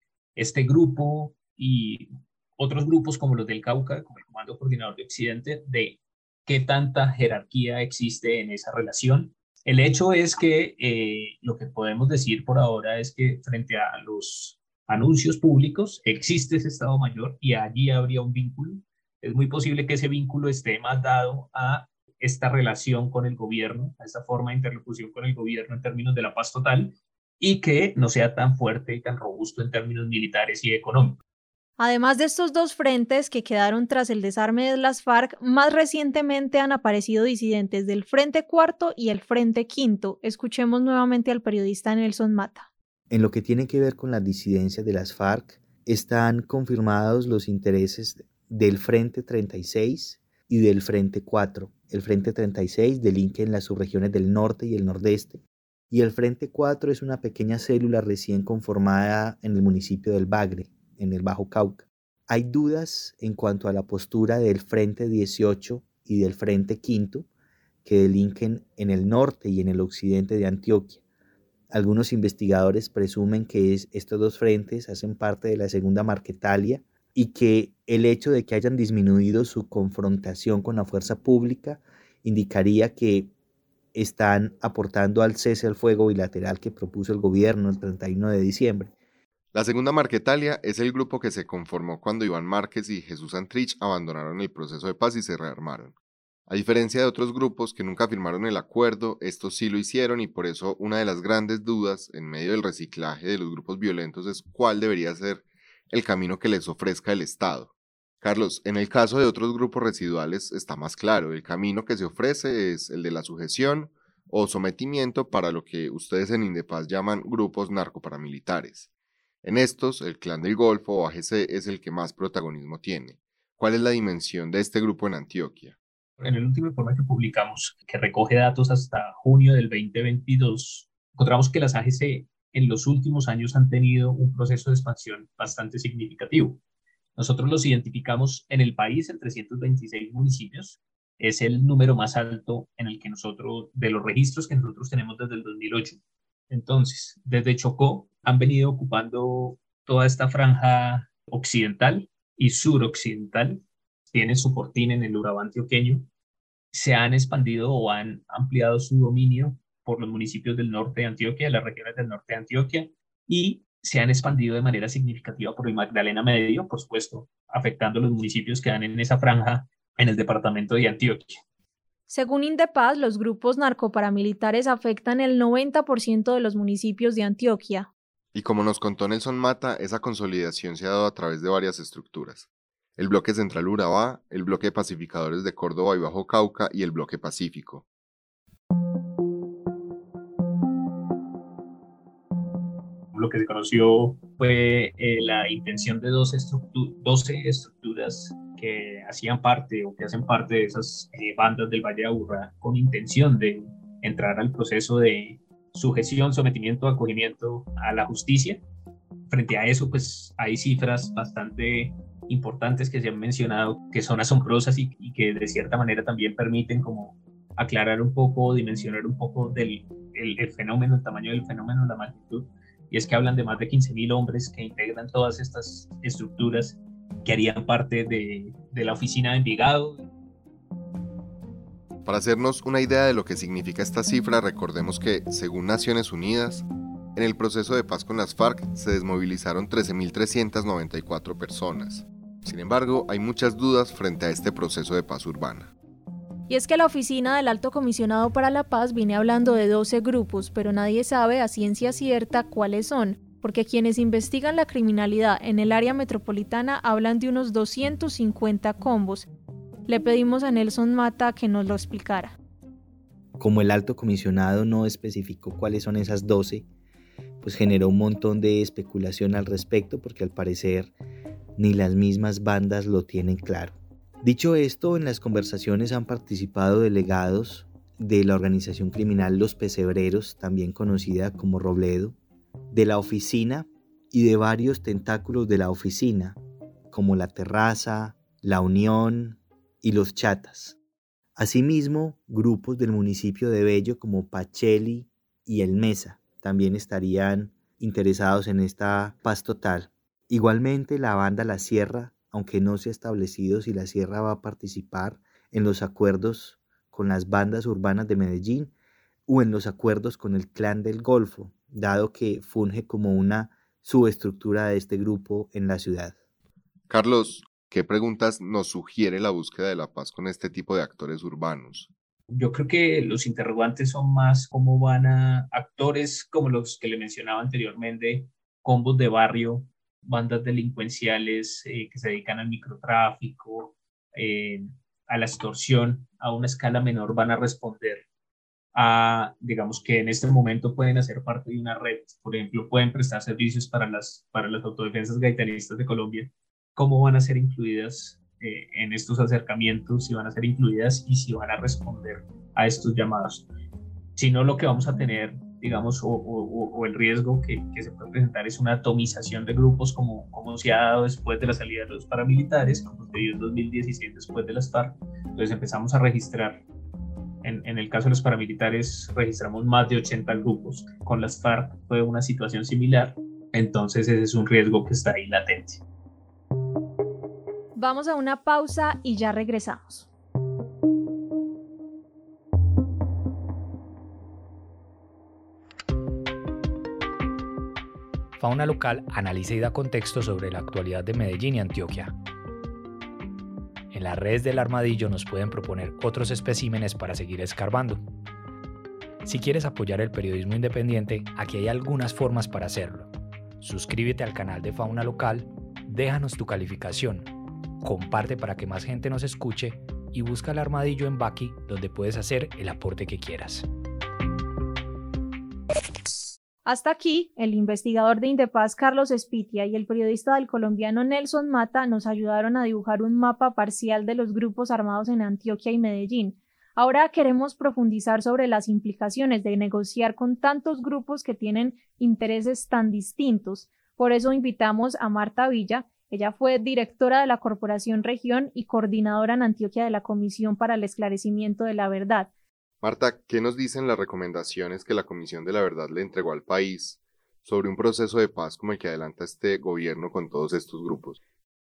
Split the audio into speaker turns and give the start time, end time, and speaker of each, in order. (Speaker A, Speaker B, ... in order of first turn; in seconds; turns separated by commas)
Speaker A: 0.3-31.2, Speaker B: 31.8-42.7, Speaker C: 43.1-67.3, Speaker C: 67.8-71.0, Speaker C: 71.7-83.3, Speaker C: 83.9-88.9, Speaker D: 89.5-95.9, Speaker D: 96.5-118.9, Speaker D: 119.4-125.7, Speaker A: 126.2-136.6, Speaker A: 137.2-146.0, Speaker A: 146.5-156.1, Speaker A: 156.7-171.4, Speaker B: 172.1-177.9, Speaker D: 178.3-182.4, Speaker D: 183.0-187.8, Speaker A: 193.1-208.6, Speaker A: 209.3-230.0, Speaker D: 232.1-236.6, Speaker D: 237.2-245.7, Speaker B: 246.5-259.3, Speaker B: 259.9-262.3, Speaker C: 263.4-266.6, Speaker C: 267.4-270.9, Speaker C: 271.6-282.1, Speaker C: 282.7-286.4, Speaker C: 286.9-290.8, Speaker C: 291.4-308.7, Speaker C: 309.3-316.1, Speaker D: 316.9-321.9, Speaker A: 322.3-338.1, Speaker A: 338.7-353.5, Speaker A: 354.1-366.6, Speaker A: 367.4-375.8, Speaker B: 377.8-380.1, Speaker E: 388.4-392.1, Speaker E: 393.9-398.0, Speaker E: 399.2-403.1, Speaker E: 403.6-407.3, Speaker E: 407.8-413.6, Speaker B: 416.6-442.3, Speaker D: 442.8-451.2